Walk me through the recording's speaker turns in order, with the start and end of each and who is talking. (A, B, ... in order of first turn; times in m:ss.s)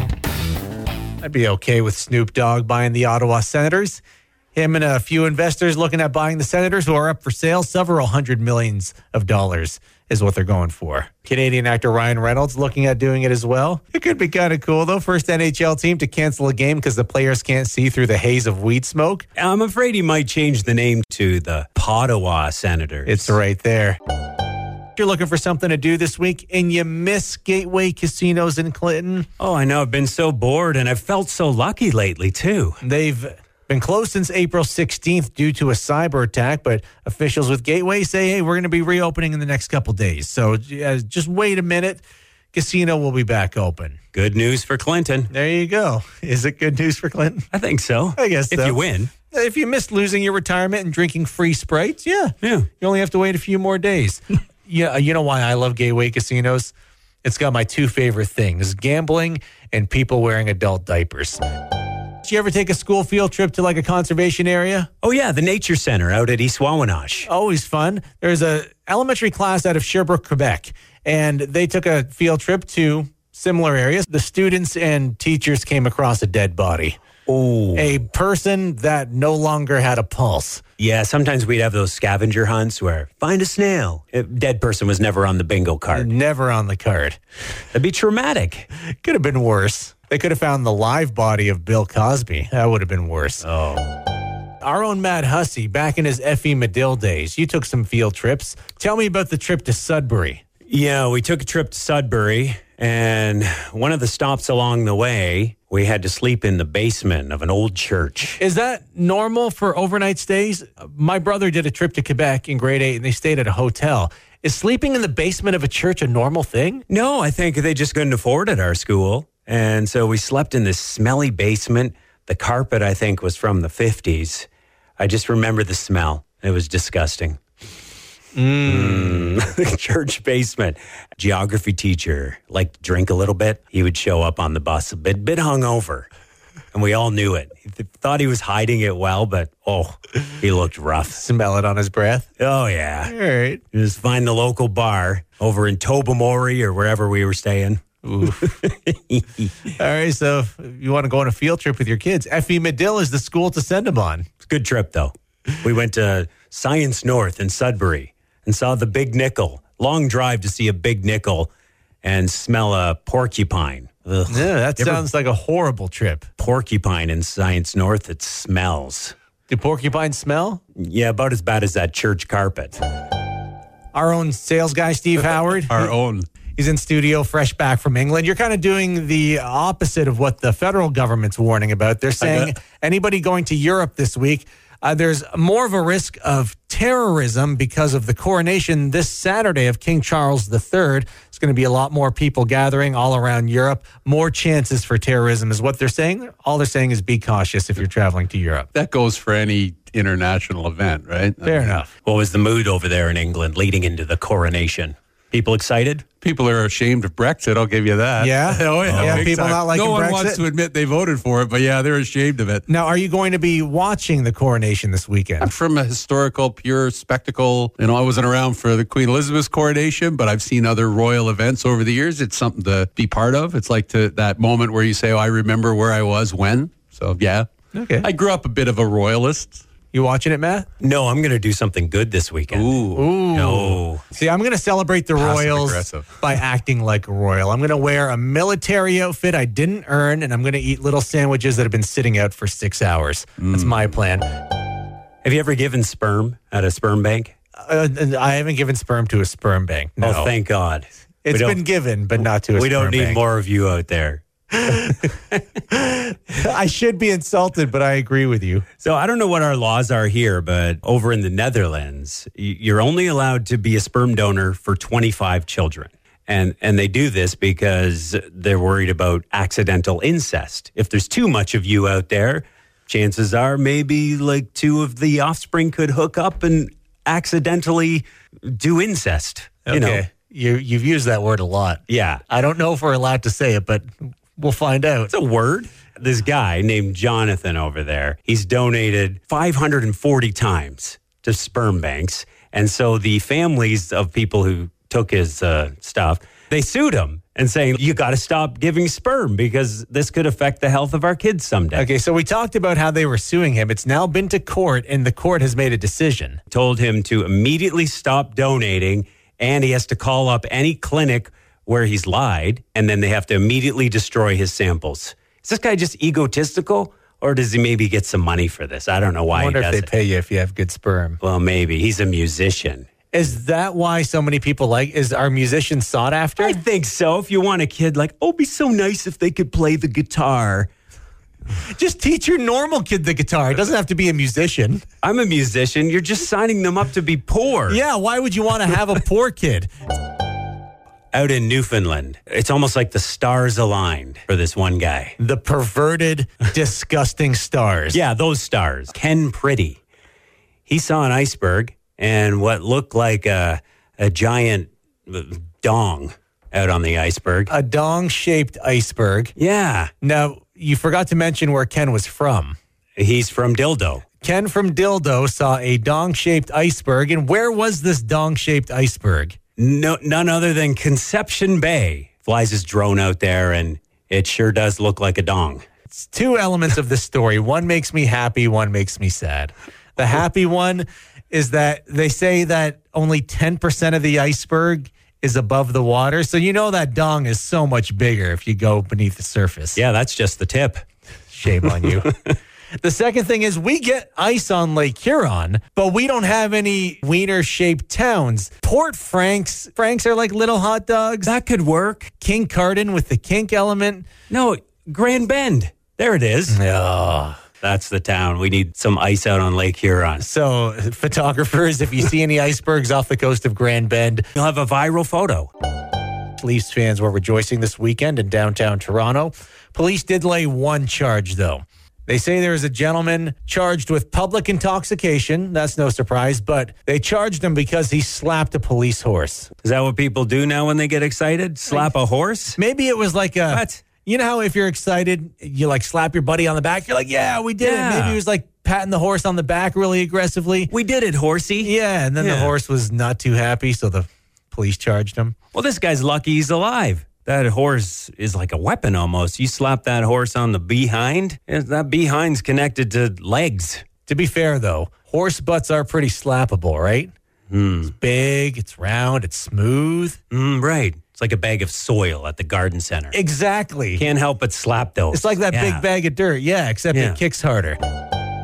0:01.2-0:04.0 A
0:04.5-0:19.2 A
0:19.4-0:23.4 B
0:23.0-0:24.0 A
0:25.0-0:29.3 A
0:29.4-0:32.8 B
0:32.8-0:44.0 A
0:44.1-0:45.3 B
0:45.3-0:47.4 A
0:47.5-0:49.1 B
0:48.2-0:56.7 A
0:52.4-0:52.7 B
0:57.2-1:01.4 A
1:02.2-1:04.9 A
1:05.0-1:07.3 B
1:07.2-1:17.0 A
1:17.3-1:17.9 B
1:17.7-1:20.6 A
1:20.8-1:26.1 B
1:25.9-1:27.2 A
1:27.7-1:28.7 B
1:29.0-1:33.4 A
1:33.4-1:33.8 B
1:34.6-1:40.4 A
1:40.7-1:48.4 B
1:48.4-1:56.8 A
1:56.9-2:04.5 B
2:05.0-2:07.4 B
2:08.4-2:09.4 A
2:08.6-2:16.1 B
2:16.7-2:21.2 B
2:21.1-2:22.2 A
2:22.4-2:23.1 B
2:23.0-2:23.6 A
2:23.7-2:29.5 B
2:28.0-2:28.5 A
2:29.7-2:34.3 A
2:34.4-2:41.5 B
2:42.0-2:45.0 B
2:44.3-2:46.2 A
2:46.4-2:49.1 B
2:49.5-2:50.6 A
2:50.8-2:52.8 B
2:53.9-2:55.9 A
2:55.7-2:56.2 C
2:56.6-3:18.7 A
3:02.2-3:02.5 C
3:18.7-3:21.8 C
3:21.4-3:21.9 A
3:22.0-3:26.0 B
3:26.2-3:32.6 C
3:28.2-3:30.4 A
3:28.8-3:29.3 B
3:32.7-3:35.5 A
3:35.4-3:47.5 C
3:47.7-3:48.1 A
3:48.0-3:49.6 C
3:49.9-3:50.7 A
3:50.8-3:52.7 B
3:52.5-3:53.7 C
3:52.9-4:04.2 A
3:53.3-3:54.0 B
3:55.2-3:56.2 C
4:03.4-4:03.7 C
4:05.2-4:07.3 B
4:07.6-4:10.3 A
4:10.0-4:11.6 B
4:11.2-4:13.2 A
4:12.2-4:15.4 B
4:14.6-4:14.9 A
4:15.7-4:18.6 A
4:18.8-4:40.0 B
4:39.6-4:45.1 A
4:41.9-4:42.2 B
4:45.1-5:01.9 B
5:01.7-5:06.4 A
5:06.5-5:19.9 B
5:19.3-5:21.2 A
5:21.2-5:22.8 B
5:23.1-5:26.6 A
5:26.4-5:30.7 B
5:31.7-5:34.8 A
5:35.0-5:37.8 B
5:37.7-5:39.7 A
5:41.1-5:45.1 B
5:45.2-5:48.0 A
5:47.9-5:49.8 B
5:50.7-5:57.5 B
5:57.5-5:59.3 A
5:59.4-5:59.9 B
6:00.0-6:02.6 A
6:03.0-6:04.0 B
6:04.2-6:09.4 A
6:09.6-6:15.6 B
6:15.9-6:29.8 A
6:29.7-6:30.8 B
6:31.3-6:32.1 A
6:32.8-6:41.4 A
6:41.2-6:42.1 B
6:42.2-6:44.1 A
6:44.3-6:46.6 B
6:46.5-6:47.4 A
6:47.6-6:50.2 B
6:50.2-6:54.3 A
6:54.4-6:55.5 B
6:56.4-7:09.5 A
7:09.6-7:12.6 B
7:11.7-7:11.9 A
7:12.5-7:20.7 A
7:13.5-7:13.8 B
7:17.6-7:18.2 B
7:20.7-7:22.6 B
7:21.6-7:25.3 A
7:25.5-7:33.8 B
7:34.0-7:37.1 A
7:37.5-7:37.9 B
7:37.8-7:40.2 A
7:40.3-7:43.2 B
7:43.1-7:44.0 A
7:44.0-7:45.8 B
7:45.1-7:47.8 A
7:46.9-7:47.2 B